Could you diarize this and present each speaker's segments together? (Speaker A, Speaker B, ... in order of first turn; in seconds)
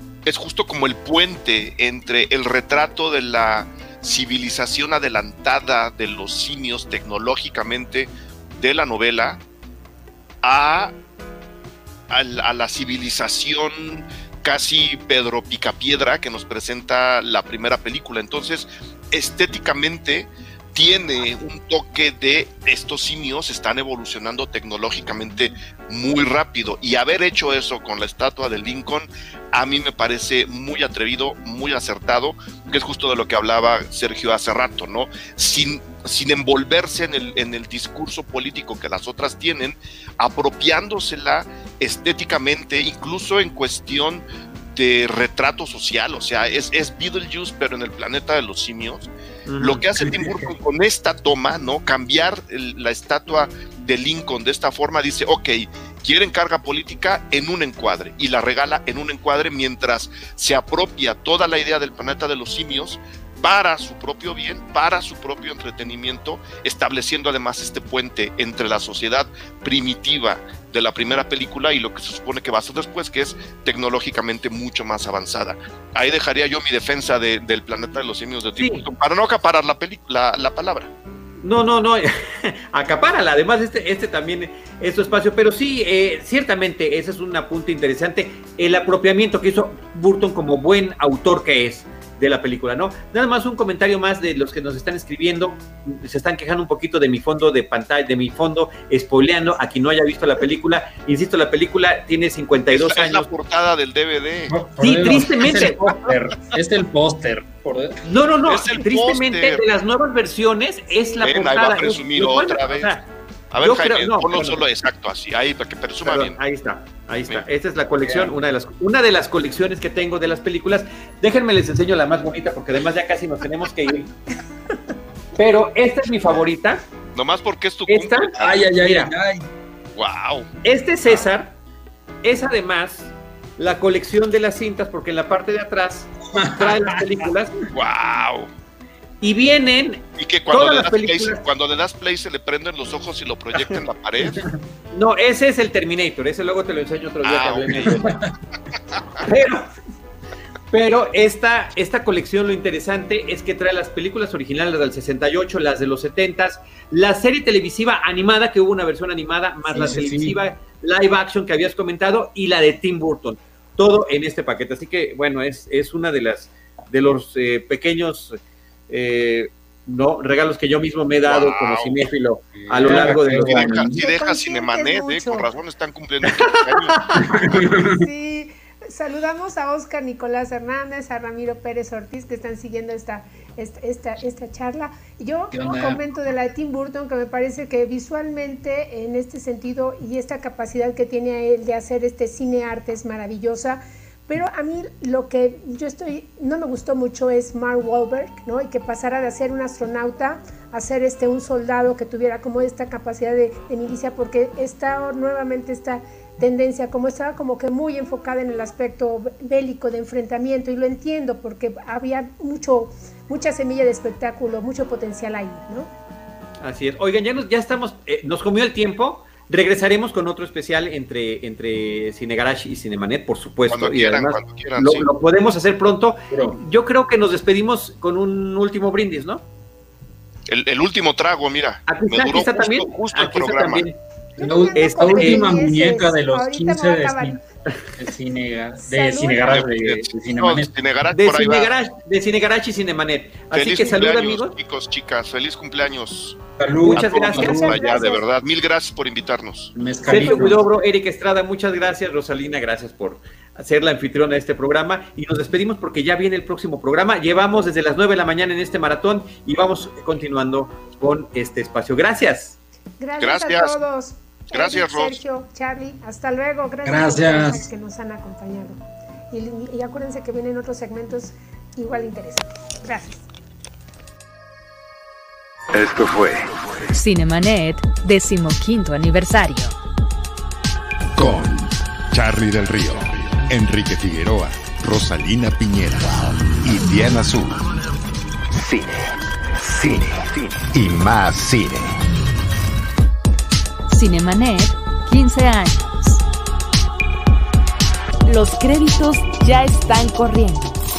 Speaker A: 0.2-9.4, 10.4-10.9, 12.1-80.9, 102.7-104.6, 108.4-109.6, 111.2-116.4, 127.1-128.7, 129.9-130.5, 137.7-138.5, 140.2-144.4, 147.2-149.2, 171.2-172.0, 172.8-177.2, 223.7-225.1, 230.5-233.9, 239.5-241.7, 243.5-246.4, 246.9-249.7, 263.2-263.8, 264.5-265.2
Speaker B: 49.5-49.8, 78.6-78.8, 81.4-103.2, 104.8-106.1, 108.0-113.0, 113.6-114.6, 116.0-124.1, 125.3-126.8, 127.9-129.1, 130.6-131.6, 132.2-137.6, 139.2-141.4, 144.9-148.2, 149.2-149.7, 150.7-173.8, 176.2-177.3, 216.6-229.4, 231.9-234.0, 234.7-235.4, 241.1-244.5, 246.8-248.2, 250.1-262.6
Speaker C: 50.1-50.4, 104.5-108.0, 118.0-118.3, 128.4-129.4, 136.3-137.2, 159.7-160.4, 172.7-174.0, 177.2-178.0, 185.5-186.0, 226.3-226.6, 234.4-237.4, 237.9-240.7, 246.6-247.8, 249.7-250.6, 266.8-267.7
Speaker D: 174.0-175.5, 177.7-215.9, 234.3-237.4, 238.8-239.5, 247.9-248.2, 263.0-268.8, 269.3-273.2
Speaker E: 275.7-276.5, 281.1-287.7, 288.5-292.0
Speaker F: 276.9-279.7, 293.9-296.2, 298.2-300.8